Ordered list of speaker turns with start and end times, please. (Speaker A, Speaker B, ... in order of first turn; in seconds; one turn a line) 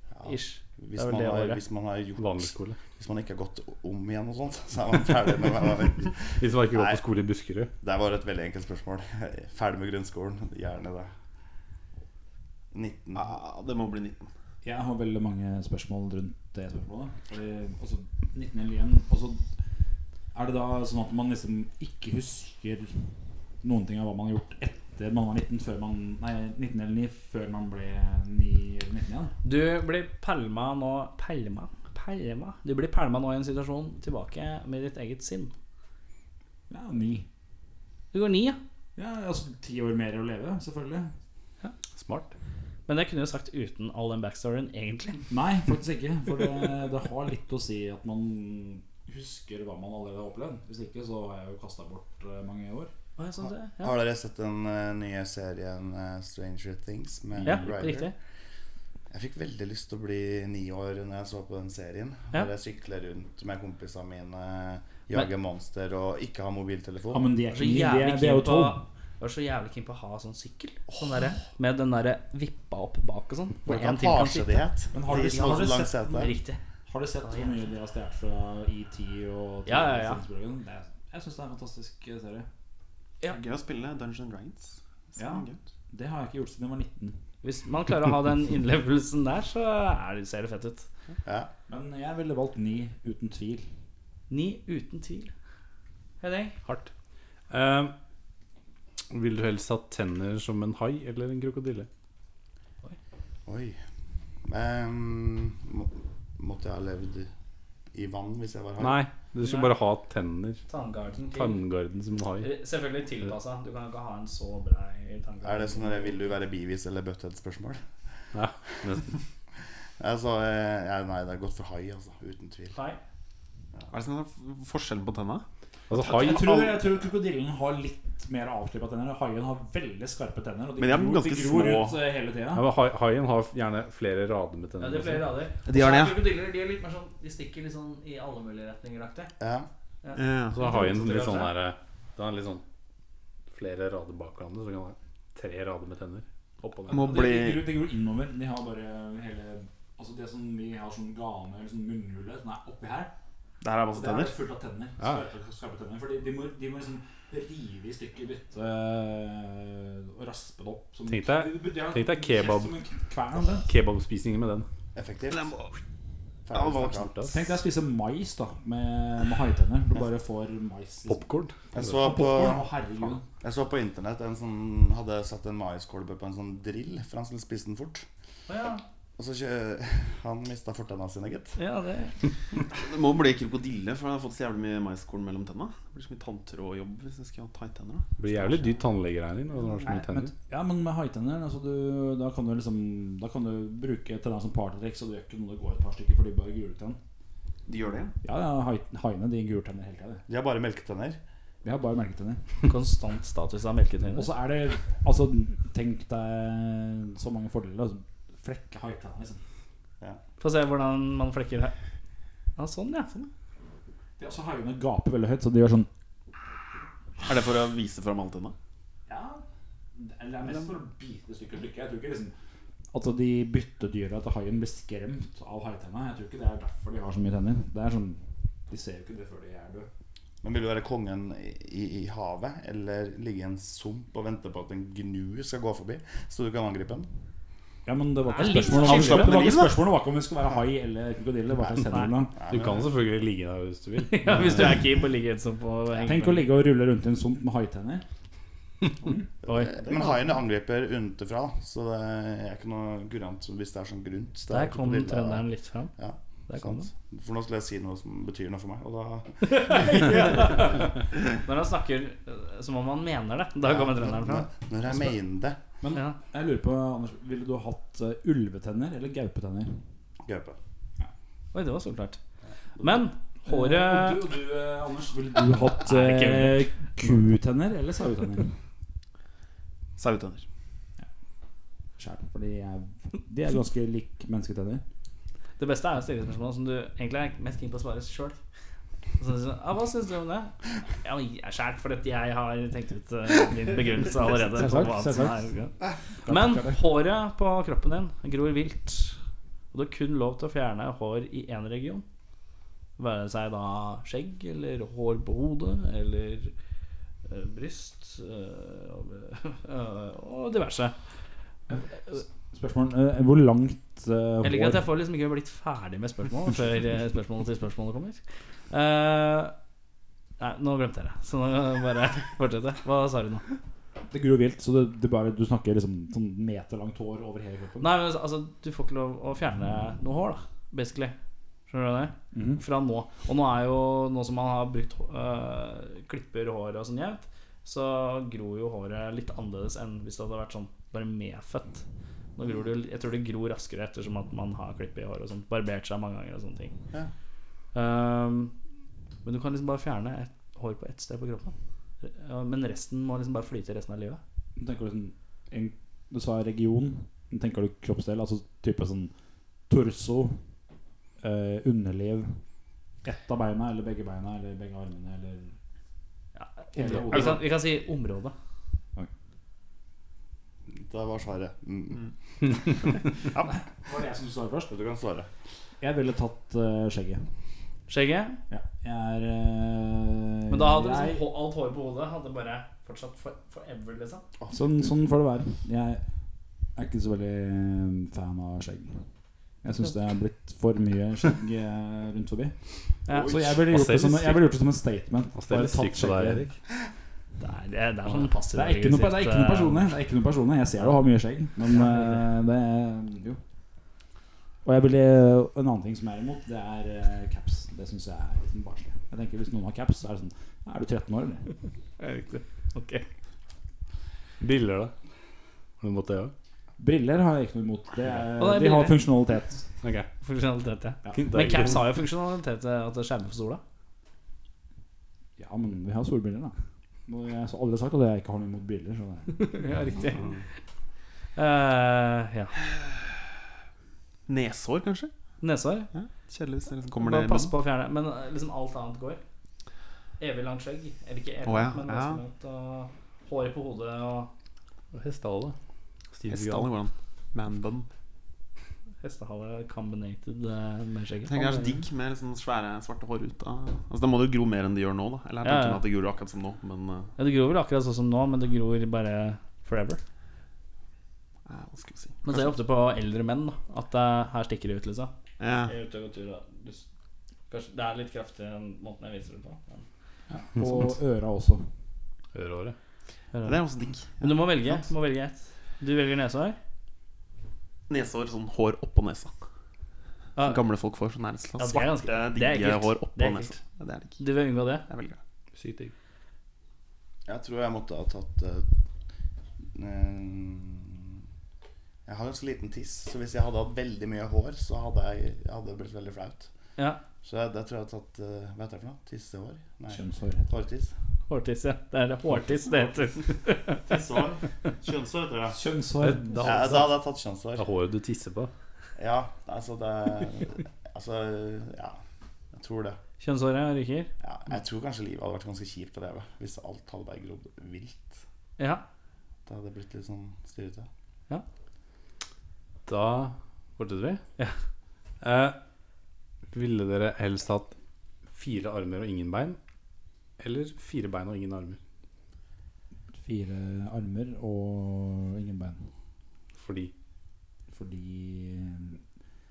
Speaker A: 0.1-7.0
Speaker B: 0.2-1.6
Speaker C: 2.2-2.8
Speaker C: 6.3-7.7
Speaker A: 7.8-11.1
Speaker A: 12.7-13.3
Speaker D: 13.1-14.3
Speaker E: 14.6-19.5
Speaker E: 20.3-23.1
Speaker E: 23.6-29.4
Speaker B: 29.4-35.5
Speaker E: 36.7-37.3
Speaker B: 38.1-38.6
Speaker E: 39.0-41.1
Speaker C: 42.0-42.3
Speaker B: 42.9-45.3
Speaker E: 45.3-52.9
Speaker B: 53.2-54.0
Speaker A: 53.4-58.1
Speaker B: 57.5-58.1
Speaker A: 59.1-67.3
Speaker E: 67.1-68.8
Speaker B: 67.5-76.6
Speaker A: 73.7-76.3
Speaker E: 74.9-82.5
Speaker B: 77.2-77.6
Speaker B: 79.7-80.2
Speaker D: 83.3-85.6
Speaker E: 85.2-87.2
Speaker B: 87.4-90.9
Speaker A: 91.2-91.5
Speaker E: 91.7-93.7
Speaker B: 94.3-95.3
Speaker B: 96.2-96.6
Speaker C: 96.7-96.9
Speaker C: 97.5-97.9
Speaker C: 99.1-101.9
Speaker A: 103.5-103.8
Speaker A: 104.5-107.3
Speaker A: 107.9-109.0
Speaker C: 108.8-110.6
Speaker B: 109.4-109.7
Speaker B: 110.7-111.6
Speaker C: 111.3-112.5
Speaker B: 112.4-116.2
Speaker A: 115.4-117.8
Speaker C: 118.3-119.2
Speaker A: 120.0-122.8
Speaker B: 122.8-123.0
Speaker D: 123.9-125.5
Speaker C: 125.9-126.6
Speaker E: 125.9-132.6
Speaker D: 130.8-132.0
Speaker C: 132.5-135.4
Speaker B: 134.8-139.3
Speaker D: 135.7-136.2
Speaker A: 139.4-139.7
Speaker B: 140.0-141.5
Speaker D: 140.2-140.9
Speaker C: 140.6-142.6
Speaker C: 143.5-147.2
Speaker D: 146.9-147.7
Speaker E: 146.9-153.1
Speaker D: 153.6-154.4
Speaker E: 153.9-163.7
Speaker C: 161.1-162.8
Speaker C: 163.5-164.7
Speaker A: 164.9-165.6
Speaker D: 165.3-165.8
Speaker A: 166.5-167.1
Speaker D: 166.5-167.1
Speaker C: 166.8-167.5
Speaker E: 167.3-173.2
Speaker C: 171.1-171.6
Speaker A: 171.7-172.8
Speaker A: 173.4-178.1
Speaker B: 178.5-178.8
Speaker A: 179.2-181.6
Speaker B: 181.6-182.2
Speaker D: 182.7-188.7
Speaker C: 188.2-190.3
Speaker E: 189.8-197.0
Speaker D: 197.7-198.2
Speaker E: 198.2-200.2
Speaker A: 200.3-201.2
Speaker E: 201.6-202.4
Speaker B: 202.7-204.3
Speaker E: 204.1-209.4
Speaker B: 210.4-211.7
Speaker B: 212.6-213.3
Speaker E: 214.2-215.9
Speaker D: 217.2-218.6
Speaker E: 219.1-219.4
Speaker E: 220.0-222.3
Speaker E: 222.9-229.9
Speaker A: 230.4-237.1
Speaker E: 237.9-242.3
Speaker B: 238.3-239.4
Speaker D: 238.6-239.8
Speaker B: 241.9-242.1
Speaker A: 242.3-242.9
Speaker C: 242.5-244.8
Speaker B: 244.0-246.5
Speaker E: 246.0-248.1
Speaker A: 249.4-255.4
Speaker B: 249.5-250.1
Speaker B: 254.5-255.9
Speaker A: 256.0-260.6
Speaker B: 256.5-256.9
Speaker B: 259.4-264.5
Speaker A: 263.6-265.6
Speaker E: 265.8-269.9
Speaker A: 270.2-270.6
Speaker B: 271.5-272.2
Speaker B: 272.8-274.2
Speaker E: 273.5-278.6
Speaker B: 275.8-276.7
Speaker D: 280.0-280.5
Speaker E: 282.0-284.8
Speaker B: 285.6-288.4
Speaker B: 289.2-299.2
Speaker E: 294.2-295.5
Speaker E: 296.2-296.9
Speaker B: 299.7-302.1
Speaker B: 303.0-306.5
Speaker B: 307.3-311.0
Speaker E: 311.7-314.9
Speaker B: 314.4-319.5
Speaker B: 320.4-323.4
Speaker E: 324.1-327.9
Speaker B: 327.8-331.1
Speaker B: 331.7-341.9
Speaker E: 332.3-332.6
Speaker B: 342.4-346.8
Speaker B: 347.7-348.5
Speaker B: 349.2-354.2
Speaker E: 354.6-359.1
Speaker E: 359.7-360.4
Speaker E: 361.2-362.4
Speaker E: 363.0-365.6
Speaker B: 366.4-368.4
Speaker E: 366.7-367.4
Speaker D: 367.1-367.4
Speaker A: 370.8-372.5
Speaker E: 373.5-374.8
Speaker A: 374.7-375.3
Speaker E: 375.8-377.3
Speaker B: 377.9-378.4
Speaker E: 378.5-381.2
Speaker B: 380.5-384.2
Speaker A: 384.4-384.9
Speaker E: 384.5-386.0
Speaker E: 386.8-389.1
Speaker E: 389.6-392.6
Speaker B: 393.1-393.4
Speaker A: 393.1-393.5
Speaker E: 393.2-396.4
Speaker C: 393.7-394.6
Speaker C: 395.4-396.6
Speaker B: 397.4-399.8
Speaker E: 398.5-403.4
Speaker B: 401.7-402.2
Speaker E: 404.6-411.5
Speaker B: 412.0-413.1
Speaker C: 414.4-414.9
Speaker C: 415.8-416.3
Speaker E: 416.8-419.7
Speaker B: 418.4-419.0
Speaker C: 419.8-420.1
Speaker B: 420.2-423.6
Speaker E: 421.0-421.5
Speaker C: 421.1-421.8
Speaker E: 425.4-426.6
Speaker E: 427.1-429.6
Speaker B: 429.3-430.2
Speaker B: 431.4-432.6
Speaker D: 432.7-433.2
Speaker D: 434.3-435.1
Speaker B: 435.4-435.9
Speaker D: 435.9-437.6
Speaker B: 437.0-439.2
Speaker B: 440.2-444.3
Speaker D: 441.4-442.2
Speaker C: 444.9-445.6
Speaker C: 446.1-446.7
Speaker D: 446.3-447.9
Speaker B: 449.0-451.7
Speaker D: 451.3-457.1
Speaker B: 455.4-455.8
Speaker B: 457.2-460.0
Speaker D: 461.5-462.6
Speaker B: 462.2-465.1
Speaker D: 465.4-465.7
Speaker B: 465.7-466.8
Speaker B: 467.5-469.9
Speaker E: 470.3-471.7
Speaker C: 472.3-472.8
Speaker B: 473.3-473.6
Speaker D: 473.4-474.9
Speaker B: 474.2-476.6
Speaker D: 477.9-479.3
Speaker B: 480.4-480.6
Speaker D: 480.4-484.2
Speaker B: 481.6-483.6
Speaker B: 484.2-484.9
Speaker D: 484.9-485.2
Speaker C: 485.5-485.9
Speaker A: 487.3-488.7
Speaker A: 489.7-491.2
Speaker A: 492.1-496.5
Speaker A: 497.2-500.9
Speaker E: 499.9-500.5
Speaker B: 501.3-503.8
Speaker A: 503.9-505.6
Speaker E: 505.5-506.6
Speaker C: 506.0-507.0
Speaker A: 506.4-507.6
Speaker C: 507.6-508.5
Speaker A: 509.0-512.0
Speaker A: 512.5-513.0
Speaker B: 513.2-514.1
Speaker A: 514.2-518.2
Speaker B: 518.6-518.8
Speaker A: 519.5-520.9
Speaker C: 522.9-524.2
Speaker C: 525.2-525.6
Speaker C: 526.5-527.7
Speaker C: 528.3-529.6
Speaker C: 530.4-531.8
Speaker E: 533.2-535.9
Speaker C: 536.6-536.9
Speaker E: 537.7-539.0